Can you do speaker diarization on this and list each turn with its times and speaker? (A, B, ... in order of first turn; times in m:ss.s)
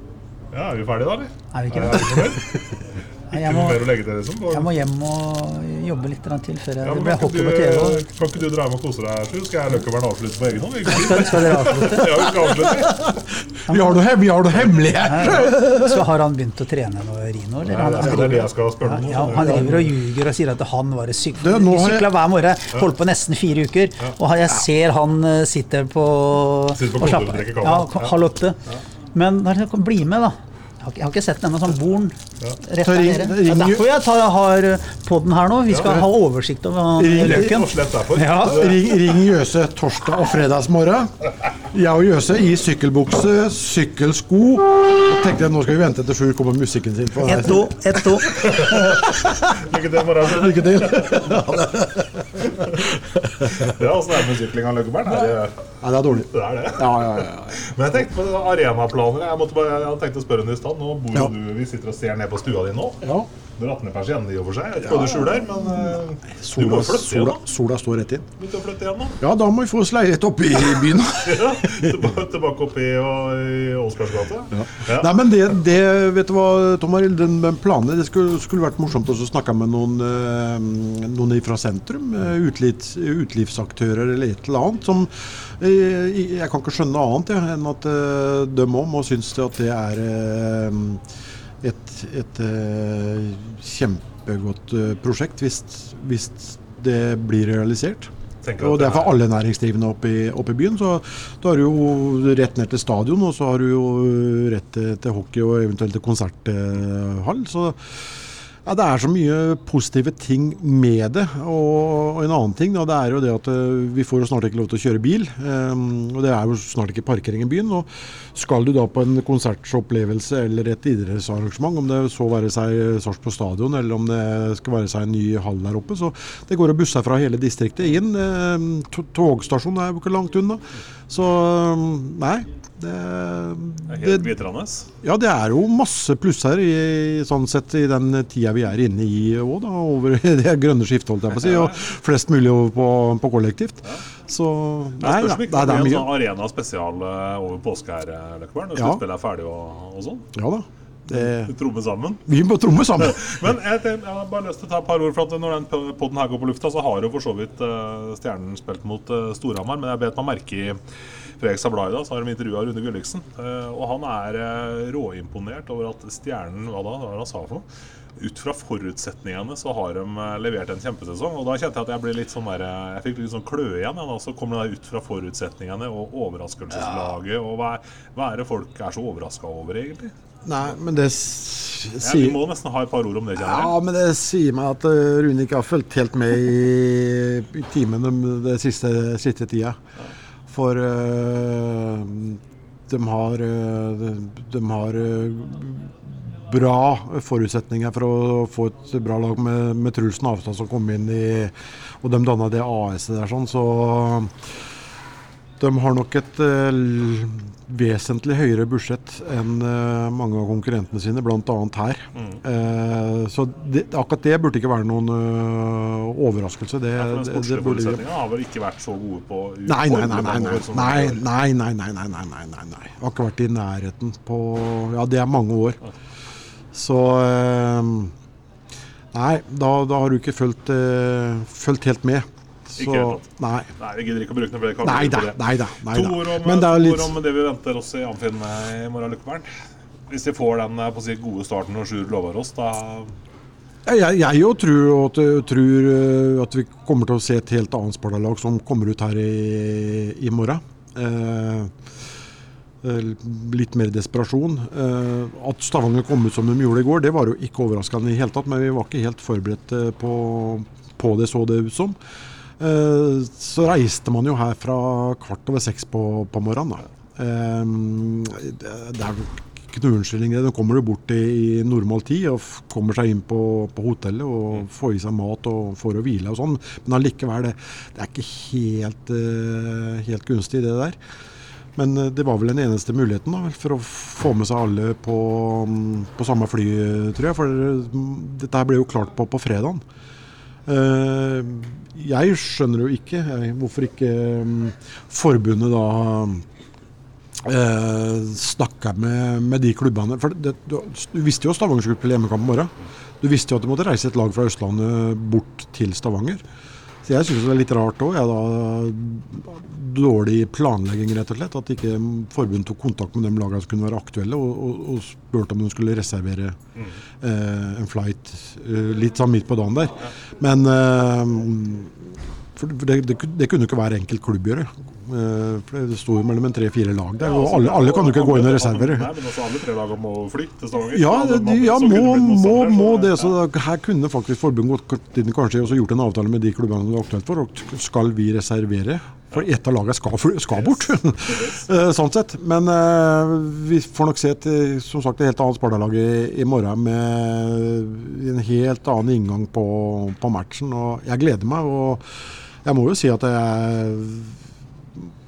0:00.5-0:02.6 A
0:01.5-0:02.4 B
0:03.3-0:04.8 A
0:03.3-0:03.8 B
0:04.5-0:08.1 B
0:06.8-0:13.2 A
0:10.9-0:12.2 B
0:12.7-0:16.0 C
0:13.7-0:14.0 B
0:15.0-0:28.6 B
0:17.7-0:19.9 A
0:18.0-0:18.3 C
0:19.4-0:19.7 C
0:21.4-0:22.2 C
0:26.7-0:28.1 A
0:29.1-0:38.7 B
0:32.8-0:33.9 C
0:35.7-0:36.1 A
0:37.0-0:37.6 C
0:37.0-0:39.0 A
0:38.4-0:49.6 C
0:47.2-0:48.4 B
0:48.3-0:51.4 A
0:50.2-0:53.9 C
0:52.6-0:55.6 A
0:55.8-0:57.6 C
0:56.3-1:03.0 A
1:03.0-1:03.3 C
1:03.6-1:07.4 A
1:04.8-1:05.6 C
1:06.3-1:08.3 C
1:08.4-1:09.2 A
1:09.2-1:12.0 C
1:11.2-1:15.2 A
1:14.5-1:31.0 C
1:31.6-2:14.4 C
1:38.4-1:39.2 A
2:13.9-2:14.9 A
2:15.0-2:26.2 C
2:21.4-2:21.8 A
2:25.0-2:30.3 A
2:28.7-2:29.0 C
2:30.3-2:31.5 C
2:31.1-2:32.3 A
2:32.3-2:33.4 C
2:32.9-2:40.8 A
2:41.4-2:47.6 A
2:48.2-3:00.1 A
3:00.4-3:02.4 C
3:02.0-3:03.7 A
3:03.4-3:09.8 C
3:10.5-3:24.5 C
3:25.6-3:38.0 C
3:37.0-3:41.2 A
3:39.6-3:45.8 C
3:46.7-3:48.1 C
3:49.1-3:53.7 C
3:52.8-3:59.5 A
3:54.8-3:57.1 C
4:00.1-4:03.1 A
4:03.8-4:11.7 C
4:12.8-4:22.0 C
4:22.6-4:41.0 C
4:41.8-4:49.8 C
4:50.6-4:56.4 C
4:57.4-5:06.4 C
5:07.0-5:16.6 C
5:17.2-5:29.1 C
5:27.2-5:33.4 A
5:30.9-5:52.0 C
5:40.6-5:41.6 A
5:52.6-5:54.4 C